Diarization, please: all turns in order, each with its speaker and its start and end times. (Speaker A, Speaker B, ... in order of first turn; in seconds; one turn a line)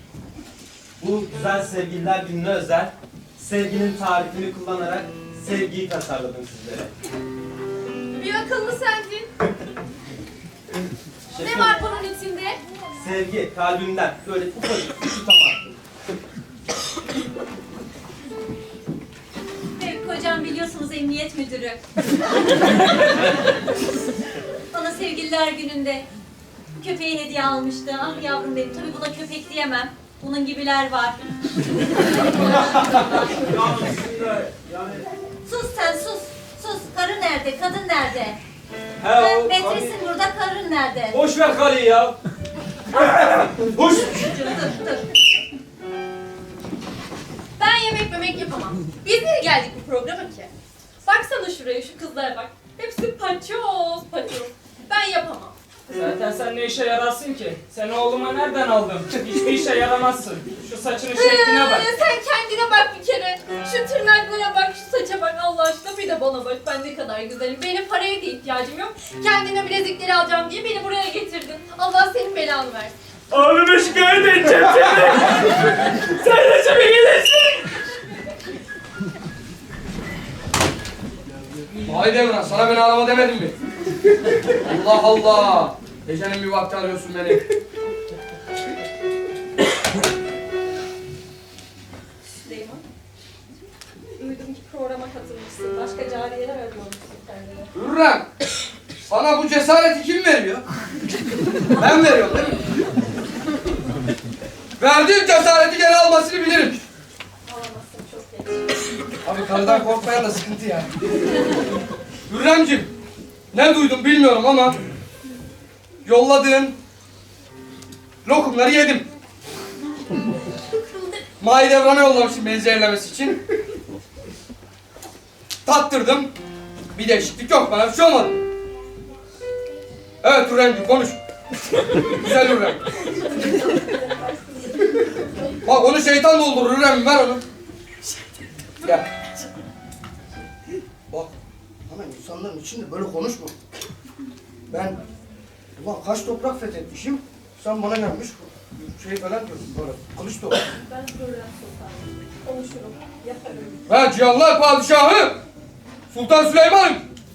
Speaker A: 1.0-6.9
Speaker B: 8.1-9.3
Speaker A: 11.3-11.9
Speaker B: 11.4-12.6
Speaker A: 12.9-15.8
Speaker C: 19.8-21.8
Speaker C: 24.7-26.1
Speaker C: 26.8-31.2
Speaker A: 32.5-35.1
Speaker C: 35.5-38.4
Speaker A: 39.0-40.2
Speaker C: 39.1-41.2
Speaker A: 41.1-42.2
Speaker A: 43.0-44.3
Speaker C: 44.0-44.9
Speaker B: 47.6-50.5
Speaker B: 51.0-55.5
Speaker D: 55.9-61.9
Speaker B: 61.1-72.9
Speaker E: 73.3-75.5
Speaker B: 76.1-77.7
Speaker F: 81.8-83.6
Speaker F: 84.5-87.4
Speaker B: 92.5-92.8
Speaker B: 94.2-97.7
Speaker F: 97.8-98.3
Speaker F: 99.1-100.7
Speaker F: 101.7-102.5
Speaker F: 104.8-106.8
Speaker B: 107.5-108.7
Speaker F: 109.2-110.9
Speaker F: 112.3-112.9
Speaker F: 113.5-114.8
Speaker F: 116.0-116.8
Speaker F: 118.2-119.1
Speaker F: 121.4-123.4
Speaker F: 125.7-126.3
Speaker F: 126.9-128.4
Speaker F: 130.2-131.2
Speaker F: 132.2-132.8
Speaker B: 133.9-134.4
Speaker F: 135.6-137.4
Speaker F: 138.8-139.1
Speaker F: 141.9-143.5
Speaker F: 144.7-145.0
Speaker F: 145.8-150.6
Speaker B: 150.8-153.8
Speaker F: 153.9-155.4
Speaker F: 156.1-157.0